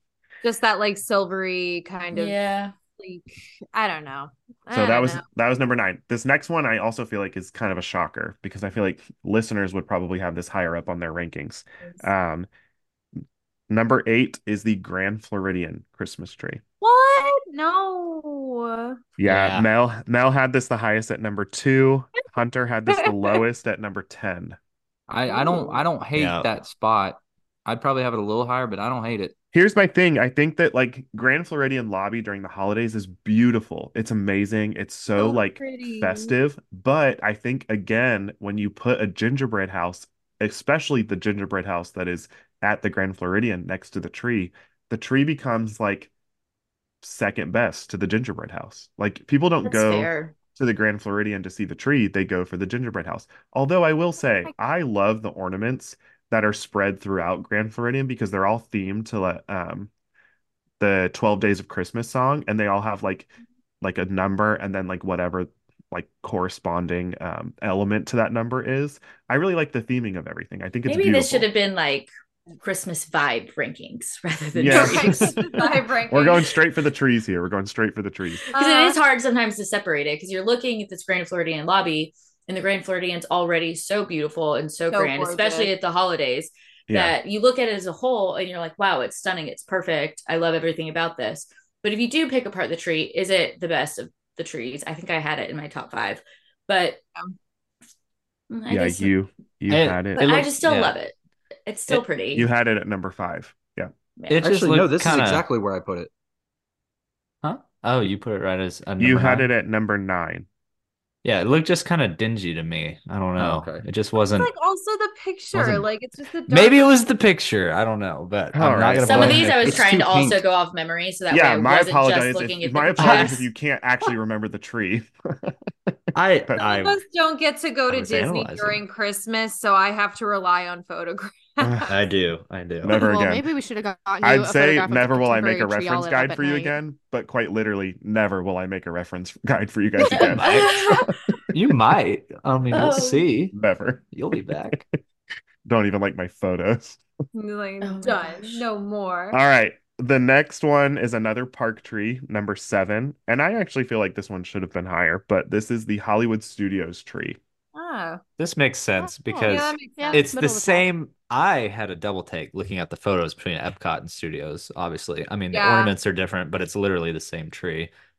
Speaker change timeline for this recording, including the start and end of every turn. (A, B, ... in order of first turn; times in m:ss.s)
0:00.4-0:02.4 A
0:02.1-0:02.7 B
0:03.0-0:05.2 A
0:04.7-0:12.5 C
0:13.7-0:16.6 C
0:16.8-0:19.0 A
0:19.2-0:24.6 C
0:19.2-0:19.7 D
0:22.9-0:23.4 A
0:25.1-0:29.4 E
0:25.3-0:25.8 A
0:26.2-0:26.5 D
0:29.5-0:46.1 C
0:35.2-0:36.3 A
0:47.0-0:59.9 C
0:49.6-0:50.4 B
1:00.8-1:03.3 C
1:03.8-1:11.5 C
1:10.9-1:15.7 B
1:14.6-1:15.4 C
1:14.7-1:16.6 A
1:16.1-1:18.5 C
1:18.5-1:19.0 A
1:18.5-1:37.0 B
1:24.9-1:25.7 A
1:26.9-1:27.2 C
1:38.5-1:39.1 B
1:38.7-1:40.3 C
1:39.7-1:41.0 D
1:40.2-1:41.1 B
1:41.7-1:42.5 B
1:42.3-1:43.9 C
1:44.2-1:44.5 B
1:44.3-1:45.4 D
1:44.4-1:46.1 E
1:47.4-1:49.5 D
1:49.0-1:50.5 C
1:51.2-1:54.5 D
1:53.4-1:53.9 E
1:54.3-1:57.0 A
1:55.5-1:55.9 D
1:56.5-1:59.9 D
1:58.5-1:59.6 C
1:59.0-2:03.5 B
1:59.6-2:00.4 E
2:01.3-2:06.7 C
2:03.0-2:03.3 D
2:06.1-2:07.0 D
2:06.6-2:12.0 A
2:07.9-2:08.8 D
2:11.9-2:13.0 D
2:12.8-2:13.5 C
2:12.9-2:16.8 F
2:14.2-2:20.7 C
2:20.1-2:21.1 B
2:20.2-2:20.8 D
2:21.5-2:23.5 D
2:22.7-2:23.2 B
2:23.5-2:24.8 C
2:24.1-2:24.8 D
2:25.6-2:27.0 C
2:27.3-2:29.4 A
2:27.8-2:28.7 B
2:29.3-2:37.4 C
2:37.7-2:38.2 A
2:38.4-2:47.9 D
2:39.0-2:40.9 F
2:39.3-2:40.3 A
2:45.5-2:46.0 A